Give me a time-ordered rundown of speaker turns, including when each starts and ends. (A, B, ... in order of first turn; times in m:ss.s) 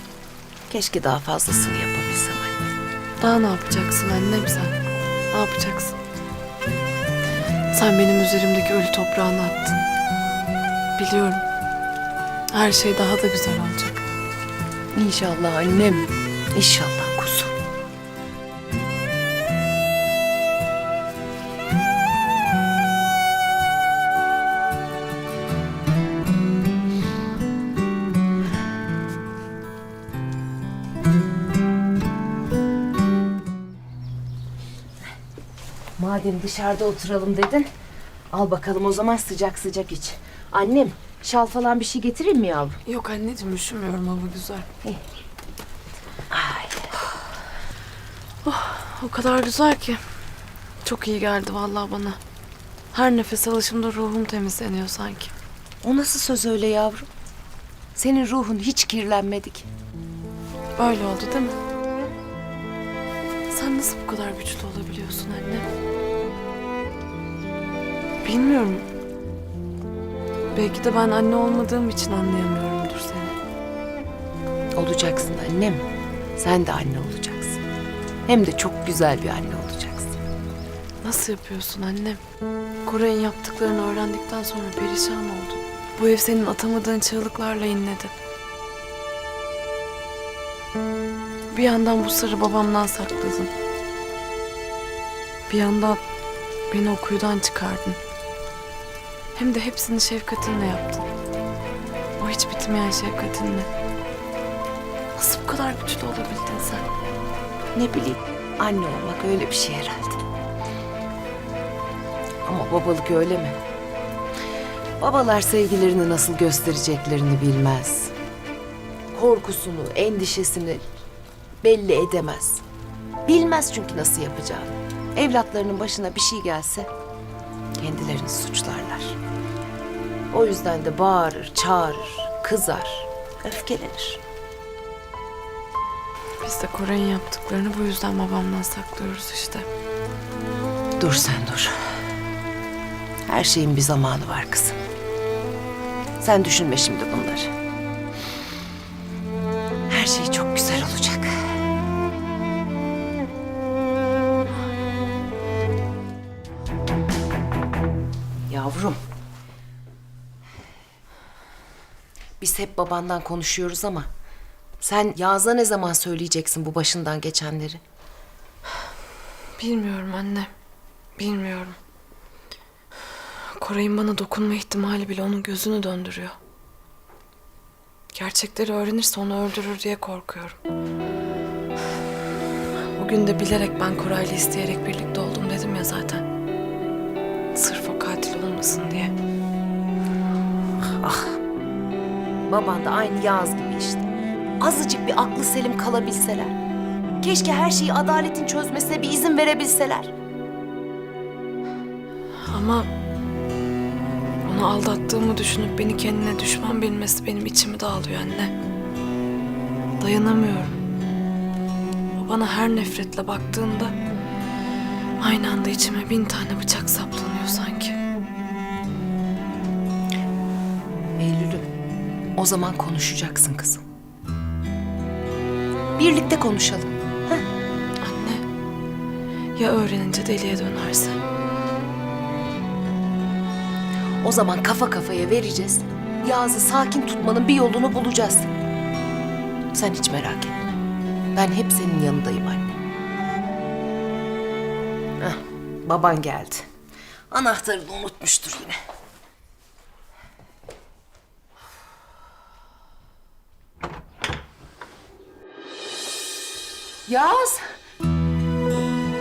0:00.7-0:02.7 A
0:03.2-0:04.7 B
0:05.3-0:06.0 B
0:07.7-0:09.8 B
0:11.0-0:11.4 B
0:12.5-0:14.0 B
0:14.9-0:17.5 A
0:36.0-0:37.7 A
0:38.3-0:42.8 A
0:42.8-0:44.7 B
0:46.3-0:46.9 A
0:48.4-0:50.0 B
0:50.8-0:52.2 B
0:52.9-0:55.3 B
0:55.8-0:57.1 A
0:58.0-0:59.7 A
1:00.8-1:01.6 B
1:03.5-1:05.7 B
1:08.2-1:08.8 B
1:10.5-1:13.3 B
1:14.8-1:15.8 A
1:16.4-1:17.6 A
1:18.3-1:20.2 A
1:21.0-1:22.2 B
1:22.8-1:28.1 B
1:31.5-1:33.5 B
1:35.5-1:36.0 B
1:36.7-1:38.0 B
1:39.3-1:41.1 B
1:42.2-1:43.7 B
1:45.2-1:46.8 B
1:47.7-1:50.2 A
1:52.4-1:53.6 A
1:55.0-1:58.1 A
1:59.1-2:00.8 A
2:01.6-2:02.6 A
2:03.2-2:06.9 A
2:07.8-2:09.2 A
2:10.3-2:14.2 A
2:16.4-2:19.7 B
2:21.0-2:21.7 A
2:23.3-2:24.8 A
2:26.2-2:27.5 A
2:29.9-2:31.3 A
2:38.5-2:39.0 A
2:42.4-2:44.1 A
2:44.8-2:47.8 A
2:49.6-2:50.5 B
2:51.2-2:51.8 B
2:53.6-2:56.4 B
2:58.1-3:00.6 B
3:03.0-3:06.2 B
3:07.5-3:09.1 B
3:10.9-3:11.4 A
3:12.5-3:14.1 A
3:14.6-3:16.6 A
3:17.2-3:20.1 A
3:22.4-3:22.9 B
3:24.4-3:28.5 B
3:30.0-3:30.8 B
3:32.2-3:33.9 B
3:35.2-3:38.0 B
3:41.2-3:41.7 A
3:42.4-3:43.8 A
3:46.0-3:47.4 A
3:48.0-3:48.4 B
3:49.6-3:51.2 B
3:54.2-3:58.5 A
3:59.7-4:00.7 A
4:01.3-4:02.8 A
4:05.2-4:06.7 A
4:07.3-4:08.8 A
4:17.1-4:17.6 A